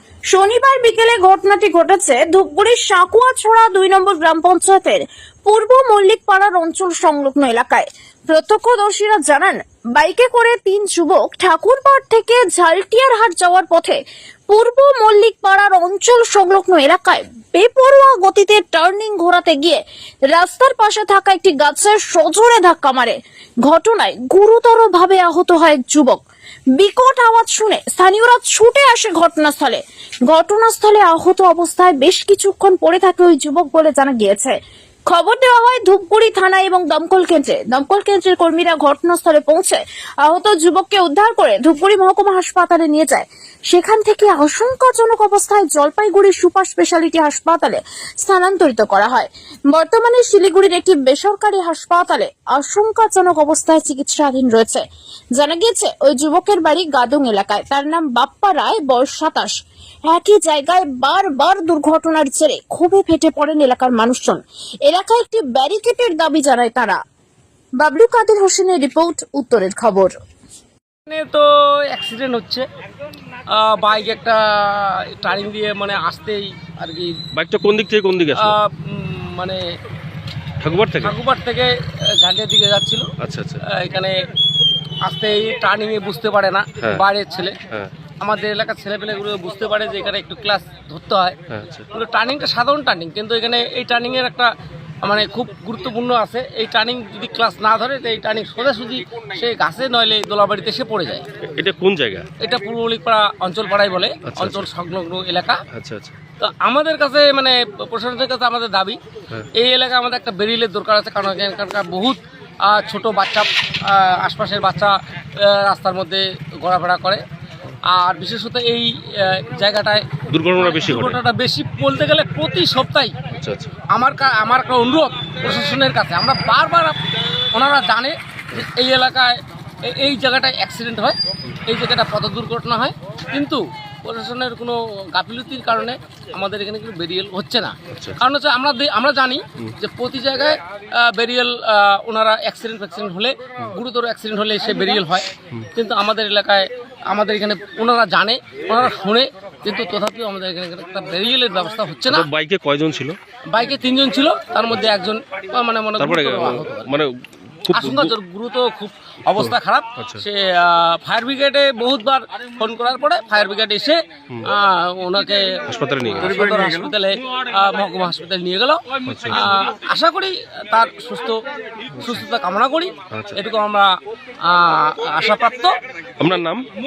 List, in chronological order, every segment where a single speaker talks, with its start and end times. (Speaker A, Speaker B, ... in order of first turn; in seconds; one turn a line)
Speaker A: 0.3-26.2
Speaker A: 26.8-34.6
Speaker A: 35.1-59.5
Speaker A: 60.1-67.0
Speaker A: 67.8-70.1
Speaker B: 71.0-72.7
Speaker B: 73.5-77.1
Speaker C: 77.3-78.5
Speaker B: 78.3-79.6
Speaker C: 80.6-81.1
Speaker B: 81.0-83.1
Speaker C: 83.2-83.6
Speaker B: 83.6-84.1
Speaker B: 85.0-87.6
Speaker B: 88.2-91.4
Speaker C: 91.5-91.8
Speaker B: 91.9-94.5
Speaker B: 95.0-101.3
Speaker C: 101.4-102.3
Speaker B: 102.4-105.6
Speaker C: 104.2-104.7
Speaker C: 105.7-106.2
Speaker B: 106.4-109.0
Speaker B: 109.5-117.2
Speaker B: 117.9-123.2
Speaker C: 120.3-121.2
Speaker C: 123.3-123.7
Speaker B: 123.9-127.0
Speaker B: 127.5-152.3
Speaker C: 137.9-138.2
Speaker C: 152.1-153.2
Speaker B: 153.5-156.9
Speaker C: 156.0-158.1
Speaker B: 157.7-171.4
Speaker C: 159.4-160.2
Speaker C: 165.7-166.4
Speaker C: 169.0-169.5
Speaker B: 172.0-173.9
Speaker C: 173.1-173.4
Speaker B: 174.4-175.7
Speaker C: 176.2-176.6